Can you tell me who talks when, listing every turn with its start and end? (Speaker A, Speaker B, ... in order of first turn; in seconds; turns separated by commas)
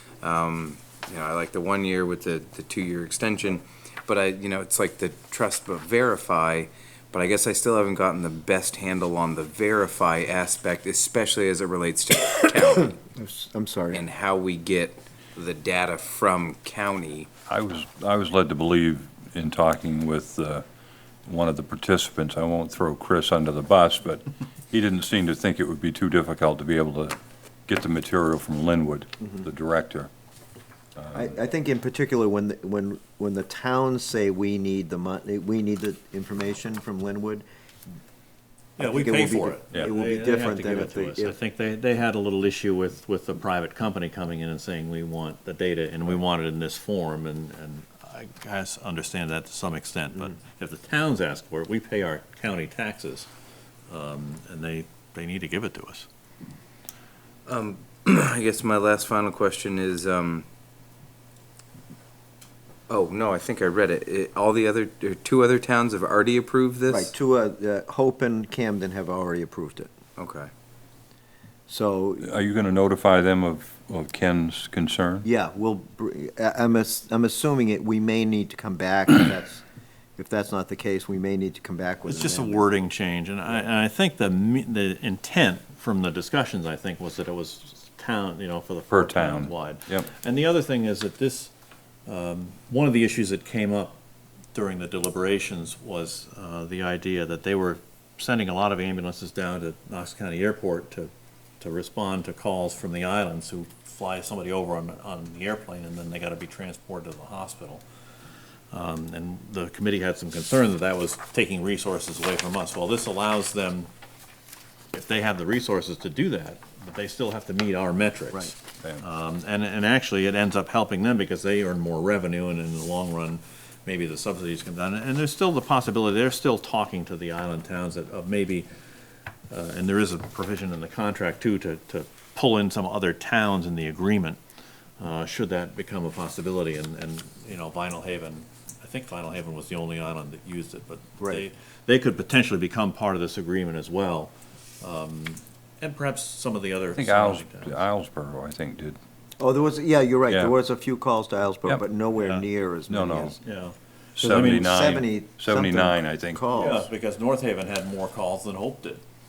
Speaker A: 0.2-12.9, Speaker B: 12.7-14.0, Speaker A: 13.9-17.3, Speaker C: 17.5-20.6, Speaker C: 21.2-27.1, Speaker C: 27.7-30.1, Speaker C: 31.0-31.3, Speaker B: 31.1-37.5, Speaker B: 38.8-41.4, Speaker D: 38.8-53.3, Speaker D: 53.9-56.1, Speaker A: 57.5-60.4, Speaker A: 62.9-67.1, Speaker B: 66.9-69.9, Speaker A: 70.2-70.5, Speaker B: 71.7-72.3, Speaker C: 72.2-75.2, Speaker B: 75.2-79.6, Speaker B: 80.2-82.7, Speaker D: 82.0-91.5, Speaker C: 88.9-90.1, Speaker D: 92.0-94.0, Speaker D: 94.5-107.8, Speaker D: 108.7-113.9, Speaker D: 114.9-128.7, Speaker D: 129.5-134.4, Speaker D: 135.0-147.8, Speaker C: 146.9-149.0, Speaker B: 149.4-153.3, Speaker C: 150.3-150.5, Speaker C: 152.9-153.3, Speaker D: 153.4-154.7, Speaker B: 154.2-156.9, Speaker C: 154.2-156.4, Speaker D: 156.5-159.0